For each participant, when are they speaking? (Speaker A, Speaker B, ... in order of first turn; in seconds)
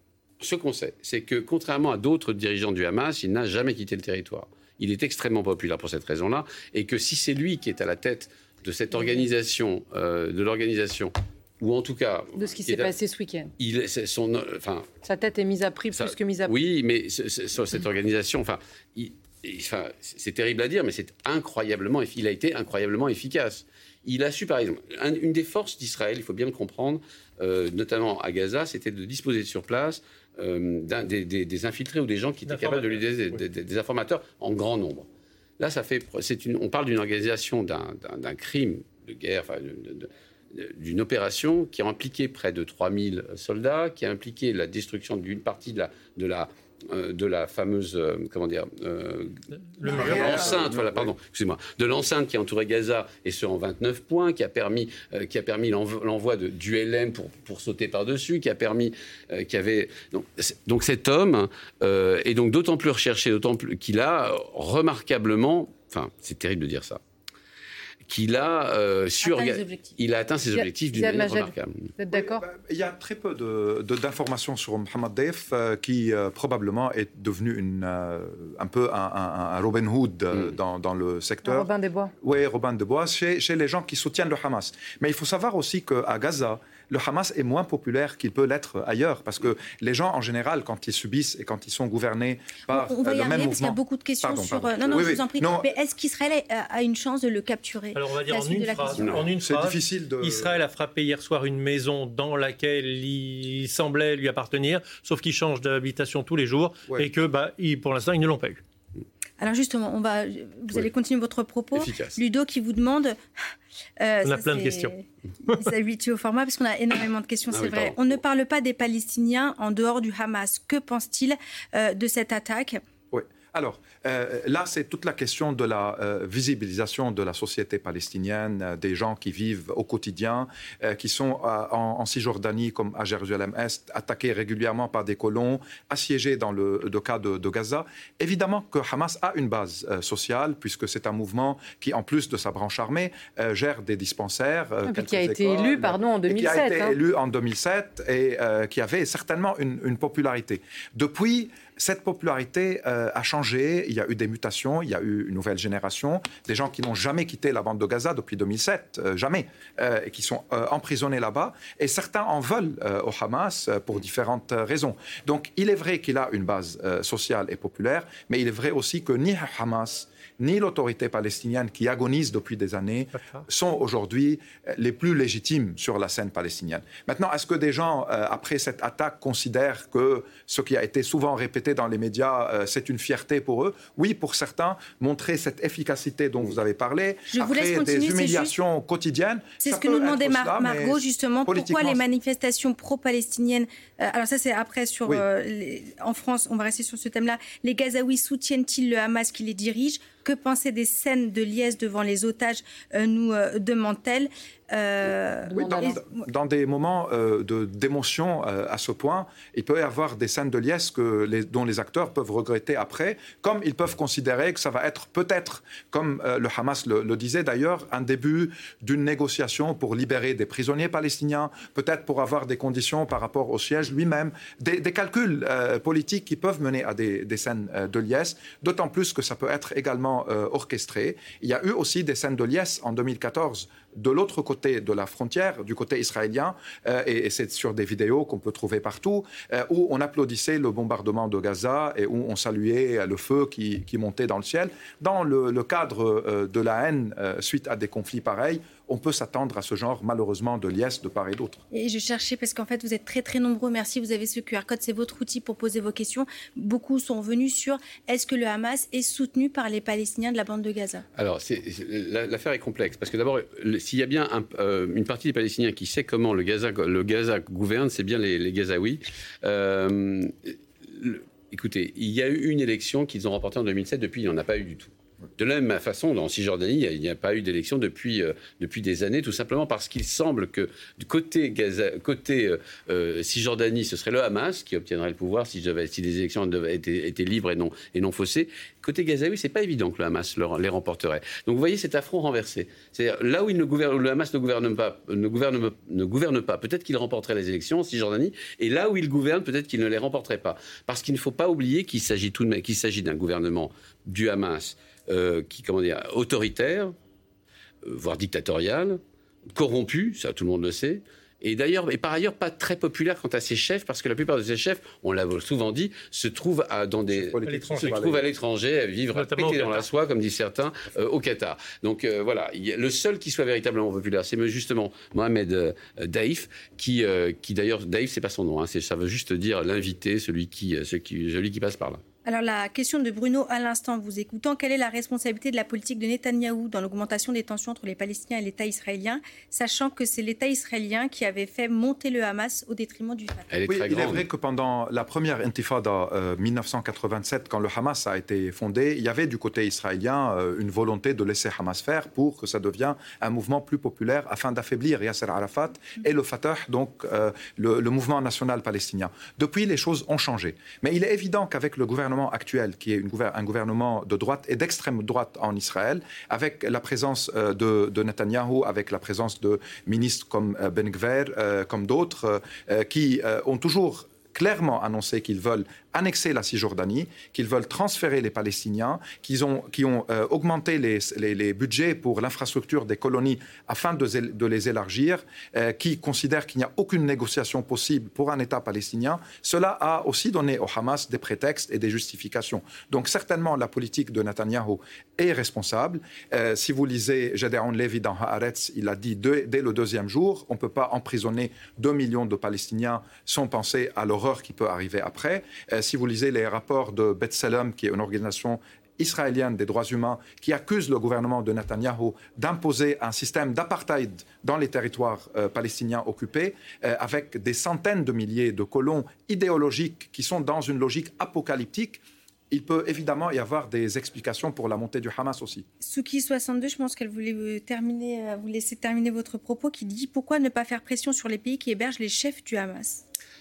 Speaker A: 0.4-12.9, 13.6-14.9, 15.9-35.1, 35.6-67.0, 68.1-71.9, 99.0-99.3, 111.7-112.2, 117.5-117.9, 261.2-306.9, 307.8-309.0, 309.5-332.0, 343.5-344.3
Speaker B: 12.4-13.5, 15.0-16.5, 70.5-72.4, 81.4-82.1, 144.8-147.0, 205.4-206.0
Speaker C: 32.5-33.4, 49.7-50.4, 97.9-108.6, 114.2-114.9, 317.4-318.0, 319.1-319.9
Speaker D: 49.9-51.1, 72.1-81.7, 82.2-95.7, 99.4-100.6, 123.1-192.0, 205.6-251.6, 317.1-318.2, 343.7-425.6
Speaker E: 69.2-70.0, 92.7-99.3, 109.4-113.2, 114.0-122.8, 187.3-188.5, 189.6-206.0, 251.7-261.1, 332.3-343.5, 425.8-433.0